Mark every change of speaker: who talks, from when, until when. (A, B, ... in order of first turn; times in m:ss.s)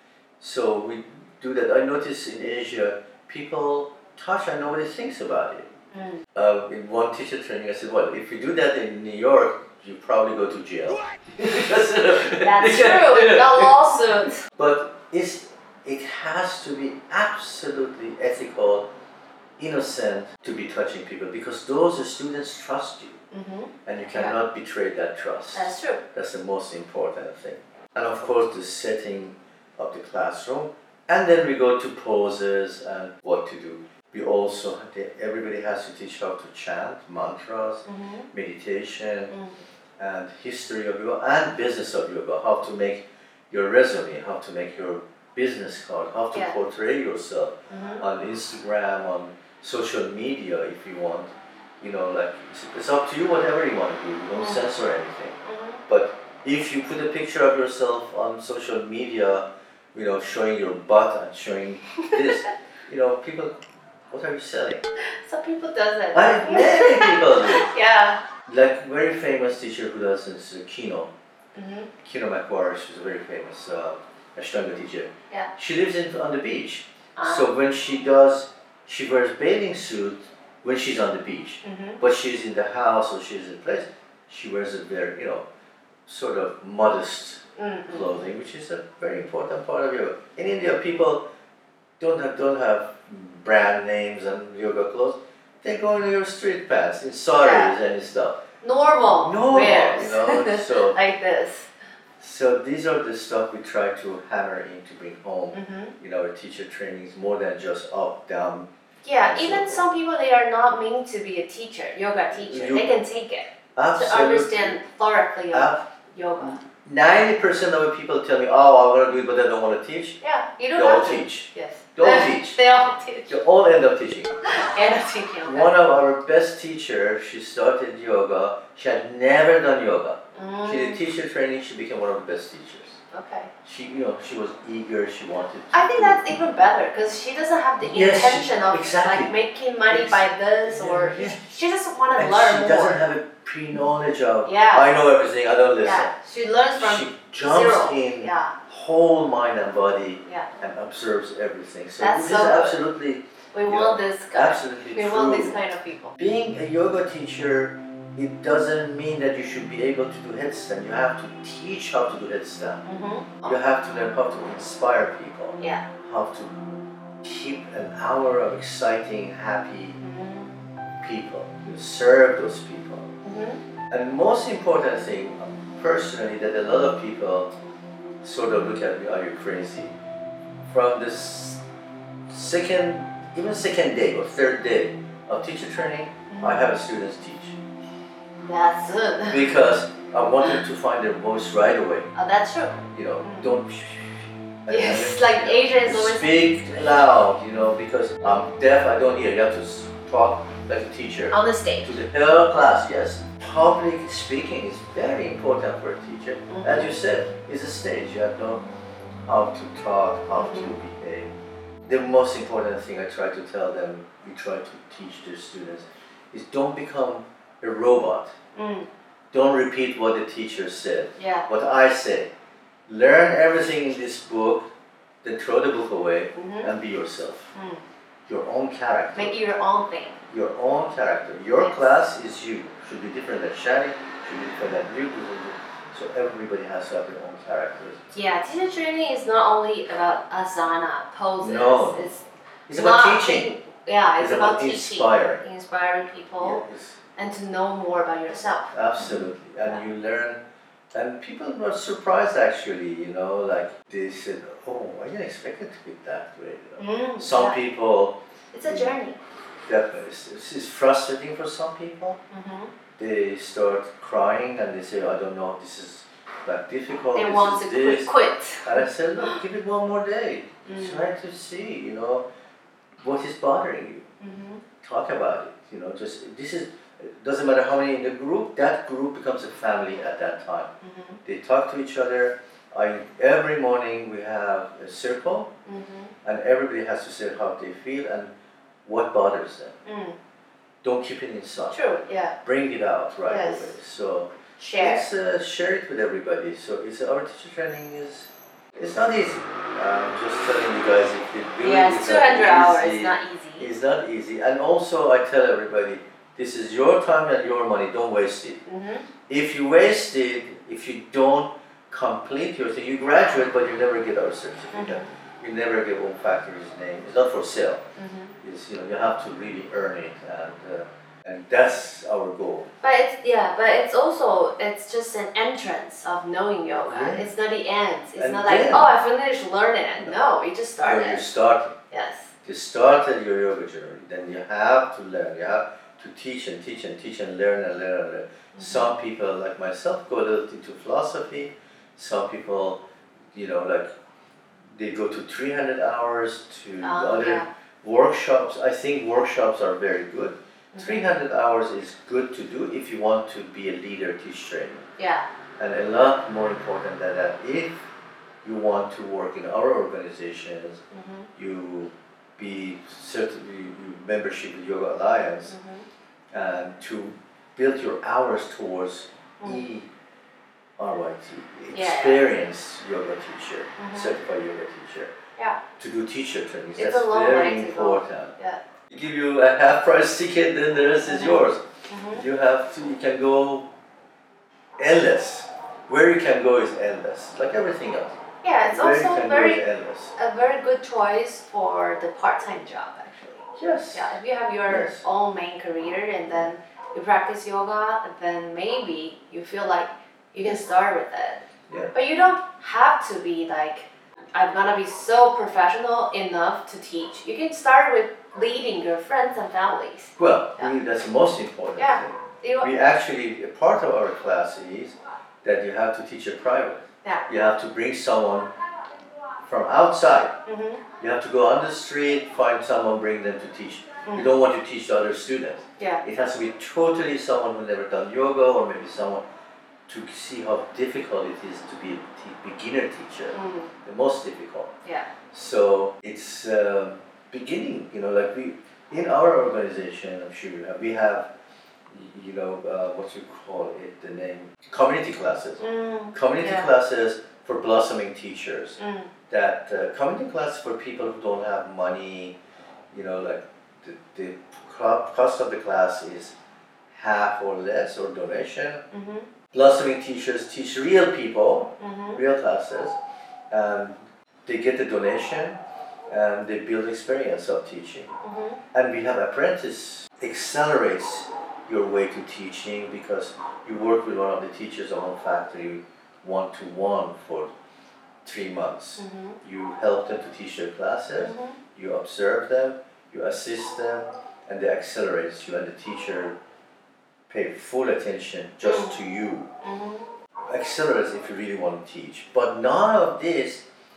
0:00.4-0:05.7 A
0:05.9-0:06.2 B
0:06.3-0:18.8 A
0:12.3-0:14.4 B
0:19.6-0:23.2 A
0:23.3-0:24.4 B
0:23.8-0:39.3 A
0:25.5-0:26.0 B
0:37.8-0:38.3 B
0:39.3-0:39.6 B
0:40.0-1:03.6 A
0:46.3-0:46.6 B
0:47.7-0:48.0 B
0:54.4-0:54.7 B
0:55.4-0:55.8 B
1:02.0-1:02.4 B
1:04.1-1:04.8 A
1:05.0-1:08.2 B
1:06.1-1:07.7 A
1:08.4-1:11.1 A
1:11.5-1:11.9 B
1:12.0-1:25.4 A
1:17.2-1:17.5 B
1:21.6-1:22.0 B
1:26.0-1:31.2 A
1:27.6-1:28.2 B
1:32.0-1:38.4 A
1:37.4-1:37.8 B
1:38.6-1:41.7 B
1:39.0-1:41.0 A
1:42.2-1:49.8 A
1:45.5-1:45.9 B
1:49.0-1:56.6 B
1:52.3-1:52.9 A
1:53.7-1:54.8 A
1:55.5-2:00.2 A
2:00.2-2:03.4 B
2:00.7-2:02.6 A
2:03.3-2:04.4 A
2:04.4-2:05.7 B
2:05.4-2:13.0 A
2:10.3-2:11.0 B
2:13.1-2:13.5 B
2:13.6-2:16.3 A
2:15.7-2:23.0 B
2:17.8-2:19.3 A
2:19.9-2:21.5 A
2:22.2-2:26.1 A
2:24.4-2:24.9 B
2:25.8-2:28.5 B
2:26.8-2:35.6 A
2:32.0-2:32.8 B
2:33.5-2:36.1 B
2:36.2-2:42.8 A
2:42.8-2:43.6 B
2:43.4-2:46.6 A
2:47.2-2:50.0 A
2:50.0-2:50.5 B
2:51.0-2:53.1 A
2:53.2-2:53.6 B
2:53.9-2:57.5 A
2:58.2-2:59.9 A
3:00.6-3:01.6 A
3:02.3-3:07.6 A
3:06.3-3:06.7 B
3:08.4-3:09.5 B
3:09.3-3:12.1 A
3:12.1-3:13.5 B
3:12.9-3:28.6 A
3:14.7-3:16.6 B
3:21.3-3:22.0 B
3:26.5-3:27.0 B
3:29.2-3:31.3 A
3:30.3-3:30.8 B
3:31.8-3:38.3 A
3:38.5-3:38.9 B
3:39.3-3:42.3 A
3:41.2-3:41.5 B
3:42.9-3:44.7 A
3:45.2-3:47.5 A
3:46.3-3:46.7 B
3:47.5-3:47.8 B
3:48.2-3:49.4 A
3:49.1-3:50.2 B
3:50.3-3:58.0 A
3:51.6-3:51.9 B
3:58.1-4:06.6 B
4:01.4-4:02.1 A
4:02.7-4:03.5 A
4:04.2-4:05.4 A
4:06.4-4:07.0 A
4:07.2-4:09.8 B
4:08.7-4:10.4 A
4:10.9-4:19.0 A
4:16.8-4:17.6 B
4:18.5-4:19.2 B
4:19.6-4:22.2 A
4:22.3-4:22.7 B
4:23.0-4:28.1 A
4:27.1-4:29.4 B
4:28.6-4:32.2 A
4:30.6-4:31.1 B
4:33.0-4:34.1 A
4:34.2-4:34.6 B
4:34.8-4:40.7 A
4:40.8-4:41.2 B
4:41.2-4:45.5 A
4:45.6-4:46.1 B
4:46.2-4:48.3 A
4:48.8-4:49.8 A
4:49.8-4:50.2 B
4:50.8-5:08.6 A
4:51.7-4:52.4 B
4:53.3-4:53.7 B
4:54.6-4:55.1 B
5:01.6-5:03.7 B
5:08.6-5:09.0 B
5:09.3-5:17.8 A
5:14.7-5:15.1 B
5:18.0-5:18.3 B
5:18.4-5:22.7 A
5:22.8-5:31.2 B
5:26.8-5:27.2 A
5:28.2-5:28.9 A
5:30.8-5:31.7 A
5:31.9-5:32.3 B
5:32.4-5:42.8 A
5:38.5-5:38.9 B
5:43.3-5:43.9 A
5:44.7-5:54.9 A
5:46.8-5:47.5 B
5:50.7-5:51.1 B
5:55.0-5:55.2 B
5:55.6-5:57.9 A
5:58.4-6:00.8 A
6:00.9-6:01.3 B
6:01.3-6:05.6 A
6:05.5-6:05.8 B
6:06.3-6:09.9 A
6:09.4-6:09.7 B
6:10.8-6:15.1 A
6:11.7-6:12.3 B
6:13.8-6:14.1 B
6:15.8-6:18.3 A
6:16.8-6:18.6 B
6:18.9-6:23.7 A
6:21.0-6:22.2 B
6:24.8-6:30.1 A
6:28.4-6:29.6 B
6:30.1-6:50.7 B
6:33.6-6:34.1 A
6:34.6-6:35.0 A
6:50.2-6:58.5 A
6:51.8-6:52.7 B
6:59.4-7:00.3 A
7:00.4-7:00.8 B
7:01.0-7:09.2 A
7:04.0-7:04.3 B
7:05.8-7:06.0 B
7:09.9-7:14.7 A
7:13.3-7:13.7 B
7:15.3-7:21.3 A
7:21.9-7:28.8 A
7:25.6-7:26.7 B
7:28.8-7:29.1 B
7:29.3-7:32.4 A
7:32.9-7:36.3 A
7:36.9-7:38.8 A
7:38.9-7:39.3 B
7:39.5-7:43.0 A
7:41.8-7:42.2 B
7:43.5-7:45.6 A
7:46.1-7:48.2 A
7:48.2-7:48.6 B
7:48.7-7:57.5 A
7:58.2-8:06.3 A
7:59.0-7:59.4 B
8:01.2-8:01.6 B
8:07.3-8:09.5 A
8:08.6-8:09.0 B
8:09.6-8:10.1 B
8:10.5-8:13.6 A